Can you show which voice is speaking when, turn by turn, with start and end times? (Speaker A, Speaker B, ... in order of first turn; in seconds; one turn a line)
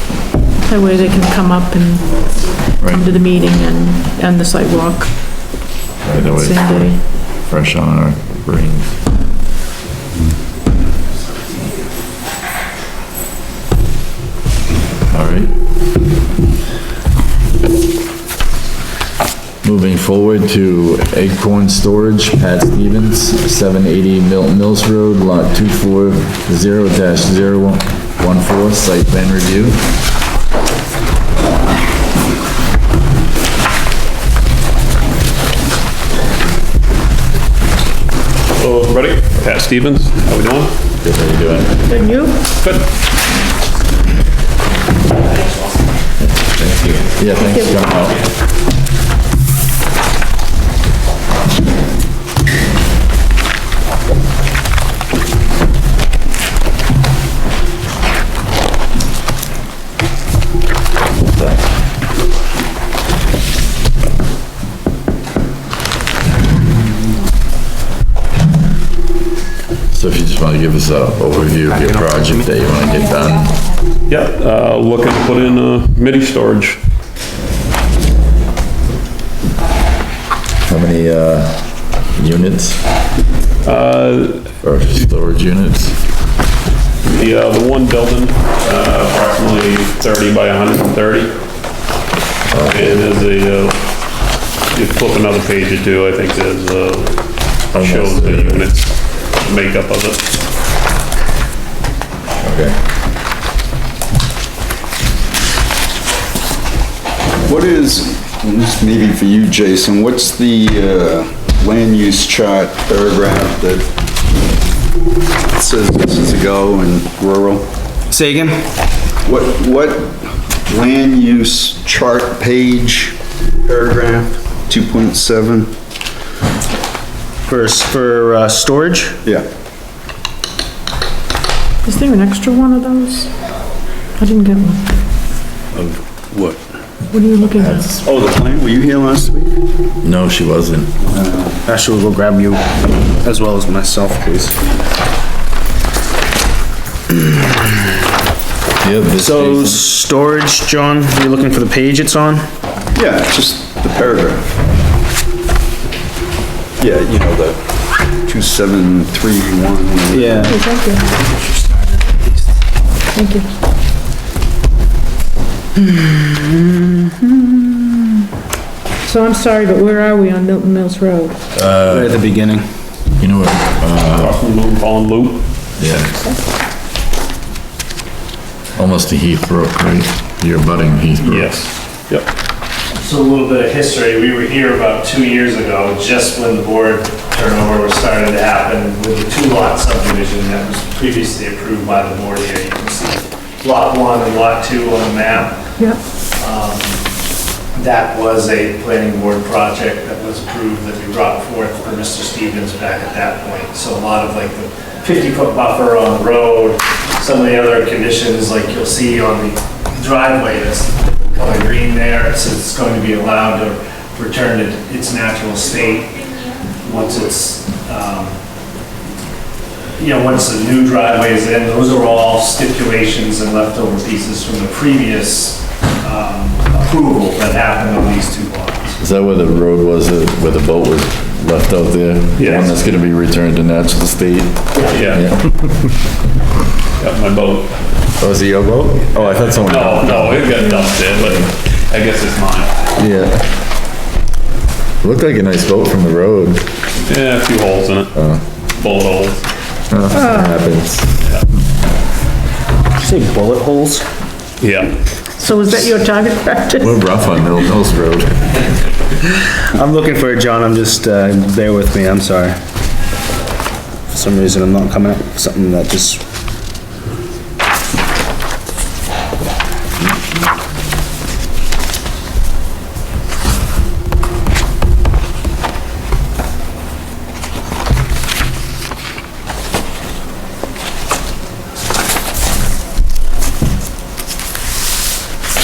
Speaker A: 0.6-5.6
Speaker B: 2.8-3.1
Speaker B: 6.0-9.0
Speaker A: 6.2-7.0
Speaker B: 15.1-15.6
Speaker B: 19.6-29.9
Speaker C: 38.5-40.7
Speaker B: 41.0-41.8
Speaker A: 41.9-42.4
Speaker C: 42.6-42.9
Speaker B: 46.2-48.3
Speaker A: 47.4-47.8
Speaker B: 61.2-61.7
Speaker B: 69.9-73.7
Speaker C: 74.1-76.8
Speaker B: 80.7-82.8
Speaker C: 83.6-84.5
Speaker B: 84.6-86.0
Speaker C: 87.0-91.3
Speaker B: 92.5-93.0
Speaker C: 92.7-93.8
Speaker C: 94.7-100.3
Speaker B: 97.7-98.7
Speaker B: 102.4-102.8
Speaker D: 107.5-113.8
Speaker D: 115.5-117.7
Speaker E: 118.1-118.7
Speaker D: 119.2-125.7
Speaker E: 127.5-129.2
Speaker A: 131.8-133.3
Speaker A: 134.2-134.9
Speaker E: 135.7-136.6
Speaker A: 137.1-138.0
Speaker B: 137.6-138.0
Speaker D: 138.0-139.5
Speaker B: 140.0-141.0
Speaker D: 141.1-141.6
Speaker E: 141.6-144.6
Speaker E: 147.2-147.7
Speaker B: 148.8-149.8
Speaker E: 149.2-152.5
Speaker D: 152.9-154.5
Speaker D: 156.8-157.6
Speaker D: 158.2-160.5
Speaker E: 160.1-162.4
Speaker A: 160.5-161.1
Speaker A: 163.1-163.5
Speaker E: 166.1-167.9
Speaker A: 169.0-171.4
Speaker B: 171.6-172.2
Speaker E: 171.8-172.7
Speaker B: 173.2-174.4
Speaker C: 174.2-175.5
Speaker B: 175.8-176.1
Speaker B: 178.8-181.6
Speaker C: 181.2-182.3
Speaker F: 183.0-195.6
Speaker F: 196.4-196.9
Speaker F: 197.7-216.1
Speaker F: 216.8-218.4
Speaker F: 220.0-229.0
Speaker B: 229.0-236.0
Speaker C: 232.4-232.8
Speaker C: 234.9-235.3
Speaker C: 237.0-237.9
Speaker B: 238.2-241.5
Speaker C: 239.2-242.8
Speaker B: 243.0-243.5
Speaker B: 245.0-246.7
Speaker C: 247.0-248.1
Speaker B: 248.1-248.4
Speaker C: 248.8-249.4
Speaker B: 249.9-251.2
Speaker A: 250.1-250.6
Speaker E: 253.0-254.1
Speaker C: 254.6-254.9
Speaker A: 255.4-257.0
Speaker B: 256.8-258.7
Speaker E: 259.7-262.6
Speaker E: 264.1-266.2